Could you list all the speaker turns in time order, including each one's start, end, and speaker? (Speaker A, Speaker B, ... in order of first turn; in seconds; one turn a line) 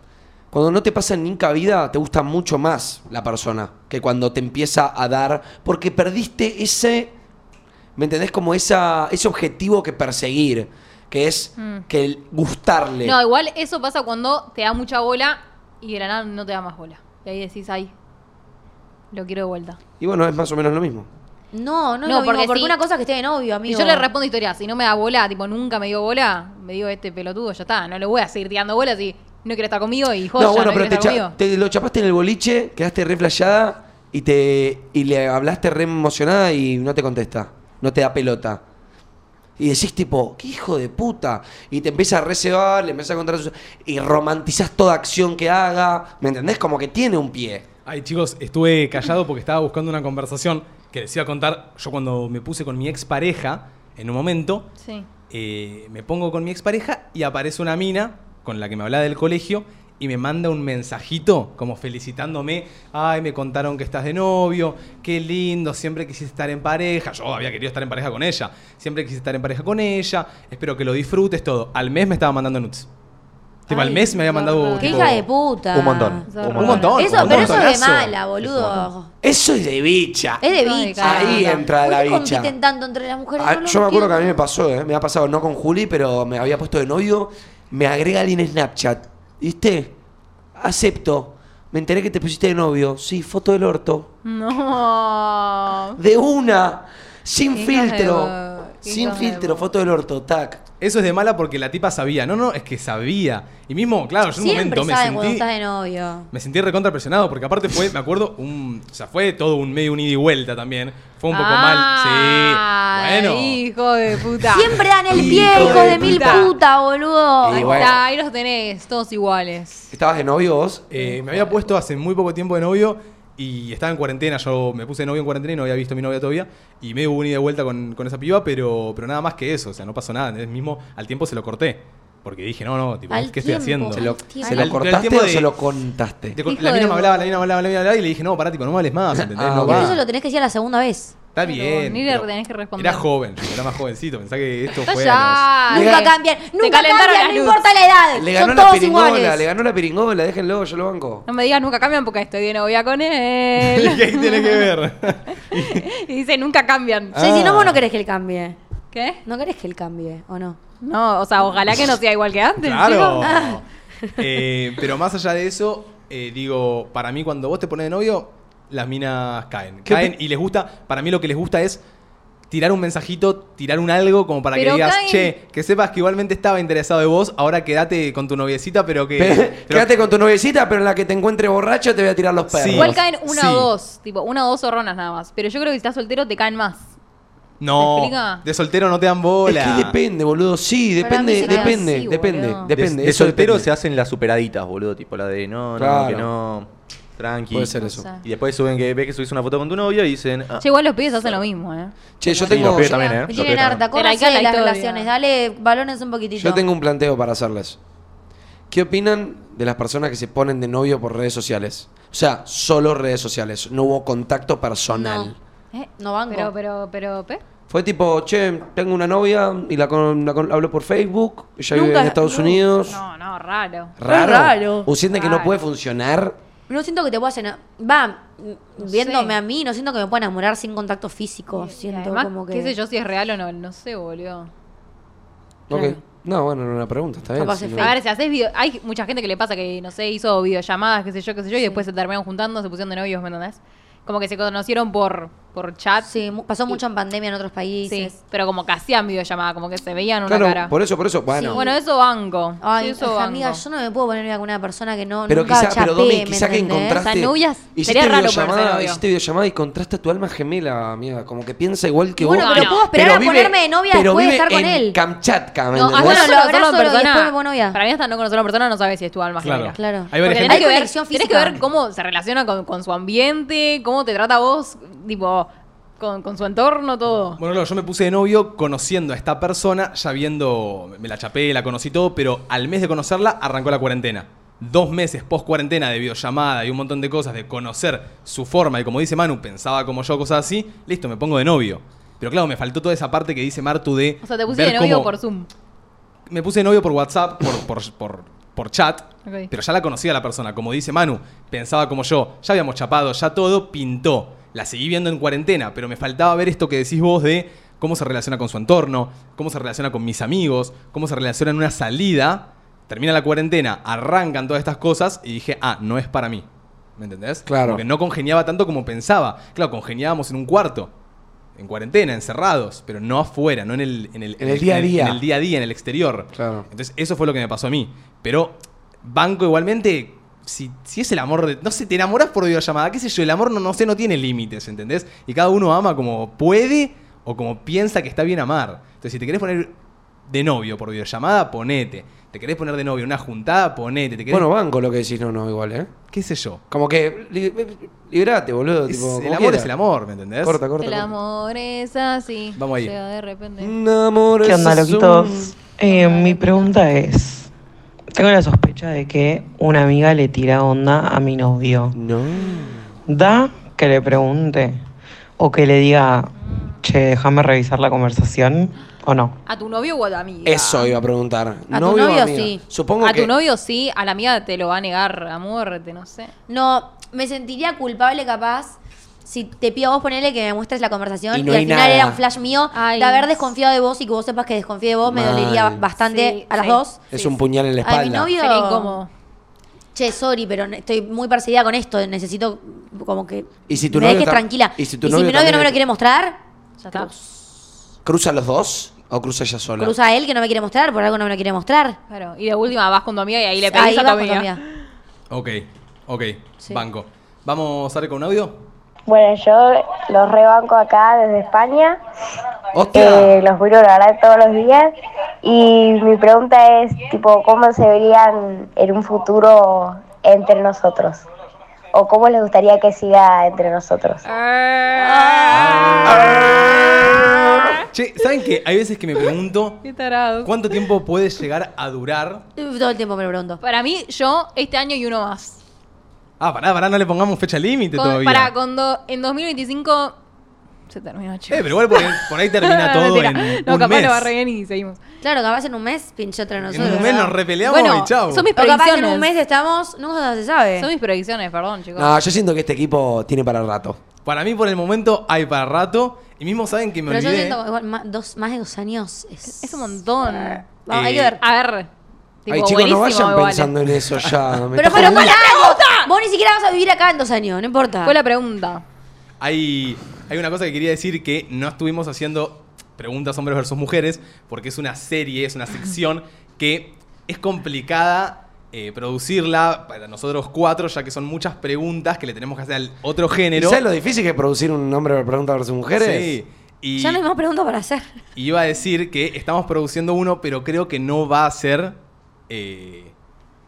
Speaker A: 0.5-7.1
Speaker A: 8.0-13.2
Speaker B: 11.6-11.9
Speaker B: 13.0-17.9
Speaker B: 19.1-19.8
Speaker A: 20.0-21.1
Speaker C: 21.5-24.1
Speaker B: 22.1-22.8
Speaker B: 23.7-31.3
Speaker A: 30.4-38.6
Speaker A: 39.6-47.6
Speaker D: 47.9-54.7
Speaker B: 54.8-55.1
Speaker D: 55.3-72.9
Speaker D: 73.7-75.2
Speaker C: 73.7-74.1
Speaker B: 73.9-75.1
Speaker C: 74.8-79.1
Speaker E: 74.9-75.2
Speaker E: 75.7-77.7
Speaker B: 76.3-77.5
Speaker D: 76.5-78.8
Speaker A: 79.2-80.4
Speaker C: 80.4-84.3
Speaker B: 80.5-81.6
Speaker A: 81.0-82.5
Speaker A: 83.4-90.0
Speaker A: 90.6-94.1
Speaker B: 94.2-96.0
Speaker A: 96.0-100.6
Speaker B: 97.5-99.7
Speaker D: 100.8-105.5
Speaker C: 104.3-106.3
Speaker D: 106.3-113.6
Speaker B: 111.3-116.5
Speaker C: 114.5-117.9
Speaker A: 115.1-116.5
Speaker A: 117.4-118.0
Speaker B: 117.5-119.9
Speaker A: 119.9-121.1
Speaker D: 120.9-135.5
Speaker C: 133.1-134.8
Speaker A: 133.9-136.4
Speaker D: 136.3-140.0
Speaker B: 136.5-137.2
Speaker A: 139.2-140.0
Speaker C: 139.7-141.2
Speaker D: 141.3-145.5
Speaker B: 141.4-143.1
Speaker B: 144.8-147.6
Speaker C: 145.7-149.4
Speaker A: 145.7-146.1
Speaker A: 148.2-151.3
Speaker B: 151.3-154.7
Speaker D: 153.6-155.9
Speaker B: 155.3-157.2
Speaker A: 157.1-157.8
Speaker C: 157.2-158.6
Speaker B: 158.9-159.2
Speaker C: 159.2-160.6
Speaker B: 160.8-163.4
Speaker D: 162.6-163.6
Speaker C: 163.2-164.2
Speaker D: 164.2-171.8
Speaker A: 169.9-170.1
Speaker D: 172.5-179.9
Speaker B: 174.5-175.3
Speaker A: 179.2-183.0
Speaker D: 182.5-183.7
Speaker B: 182.7-186.9
Speaker D: 187.6-189.9
Speaker B: 187.8-188.4
Speaker A: 189.5-193.7
Speaker C: 191.0-192.0
Speaker B: 191.4-192.7
Speaker E: 192.7-200.7
Speaker A: 195.8-196.3
Speaker A: 197.5-198.1
Speaker B: 197.8-198.2
Speaker B: 200.6-203.2
Speaker A: 202.2-203.0
Speaker E: 202.4-203.8
Speaker C: 202.7-206.6
Speaker B: 203.9-205.1
Speaker A: 206.4-207.8
Speaker A: 208.7-215.4
Speaker C: 214.9-215.3
Speaker B: 215.7-217.4
Speaker C: 216.0-216.5
Speaker A: 217.7-223.0
Speaker C: 221.7-222.6
Speaker B: 222.9-223.9
Speaker A: 224.0-226.3
Speaker C: 224.1-224.9
Speaker B: 225.1-225.6
Speaker C: 226.7-232.7
Speaker B: 228.8-229.3
Speaker B: 231.5-234.5
Speaker A: 235.7-237.9
Speaker C: 235.7-236.0
Speaker C: 237.4-238.0
Speaker B: 237.8-246.1
Speaker C: 246.0-248.2
Speaker B: 247.8-250.7
Speaker A: 250.3-251.7
Speaker C: 251.3-251.7
Speaker B: 251.5-253.6
Speaker C: 252.6-257.1
Speaker A: 255.3-266.3
Speaker B: 257.0-259.0
Speaker C: 262.2-265.0
Speaker B: 262.3-262.9
Speaker B: 265.7-277.4
Speaker C: 265.9-267.8
Speaker D: 269.4-270.7
Speaker C: 269.8-271.6
Speaker D: 277.4-295.1
Speaker B: 294.2-295.5
Speaker D: 296.3-316.5
Speaker D: 317.0-320.9
Speaker A: 317.5-317.8
Speaker D: 321.6-339.7
Speaker A: 324.4-325.2
Speaker A: 326.3-326.7
Speaker D: 340.3-344.5
Speaker A: 344.3-345.9
Speaker D: 346.1-346.6
Speaker A: 346.7-349.7
Speaker D: 348.9-350.6
Speaker A: 350.4-351.1
Speaker B: 350.8-353.7
Speaker D: 352.6-352.9
Speaker A: 353.6-355.5
Speaker F: 354.4-357.5
Speaker B: 355.8-356.8
Speaker F: 358.1-362.0
Speaker A: 361.9-362.9
Speaker F: 363.1-364.8
Speaker F: 365.4-366.3
Speaker F: 366.8-369.4
Speaker B: 369.5-370.9
Speaker A: 370.4-373.3
Speaker C: 371.7-372.6
Speaker B: 373.0-376.3
Speaker C: 376.5-387.0
Speaker A: 381.3-382.2
Speaker B: 382.7-383.5
Speaker A: 385.1-385.8
Speaker B: 386.0-387.4
Speaker A: 387.1-388.3
Speaker C: 387.8-389.0
Speaker B: 388.4-389.1
Speaker C: 389.9-396.4
Speaker A: 393.7-395.8
Speaker B: 396.8-397.1
Speaker C: 396.9-397.4
Speaker A: 398.1-399.9
Speaker C: 399.8-402.0
Speaker B: 402.1-404.6
Speaker C: 403.6-404.6
Speaker D: 405.3-408.6
Speaker G: 409.1-412.0
Speaker A: 412.7-413.4
Speaker G: 412.9-414.9
Speaker G: 415.4-421.2
Speaker G: 421.9-424.2
Speaker B: 424.3-427.7
Speaker C: 425.0-427.3
Speaker D: 425.5-426.9
Speaker A: 426.2-426.6
Speaker D: 427.9-429.9
Speaker B: 429.8-430.6
Speaker D: 430.4-432.4
Speaker C: 432.6-433.6
Speaker B: 433.6-435.6
Speaker D: 436.4-438.5
Speaker B: 437.9-440.1
Speaker B: 440.9-445.0
Speaker D: 441.5-444.3
Speaker C: 445.2-447.4
Speaker D: 446.7-448.5
Speaker B: 446.8-449.3
Speaker C: 448.5-450.9
Speaker B: 450.8-452.1
Speaker A: 452.0-454.0
Speaker D: 454.2-457.6
Speaker C: 457.1-461.4
Speaker B: 459.5-460.7
Speaker D: 460.9-461.4
Speaker B: 461.4-461.9
Speaker B: 462.4-463.7
Speaker A: 462.5-465.3
Speaker C: 464.8-468.1
Speaker B: 464.9-466.1
Speaker B: 468.0-468.8
Speaker D: 469.4-483.8
Speaker A: 483.5-486.4
Speaker D: 486.0-487.2
Speaker C: 487.0-488.1
Speaker D: 488.4-492.0
Speaker D: 492.5-493.1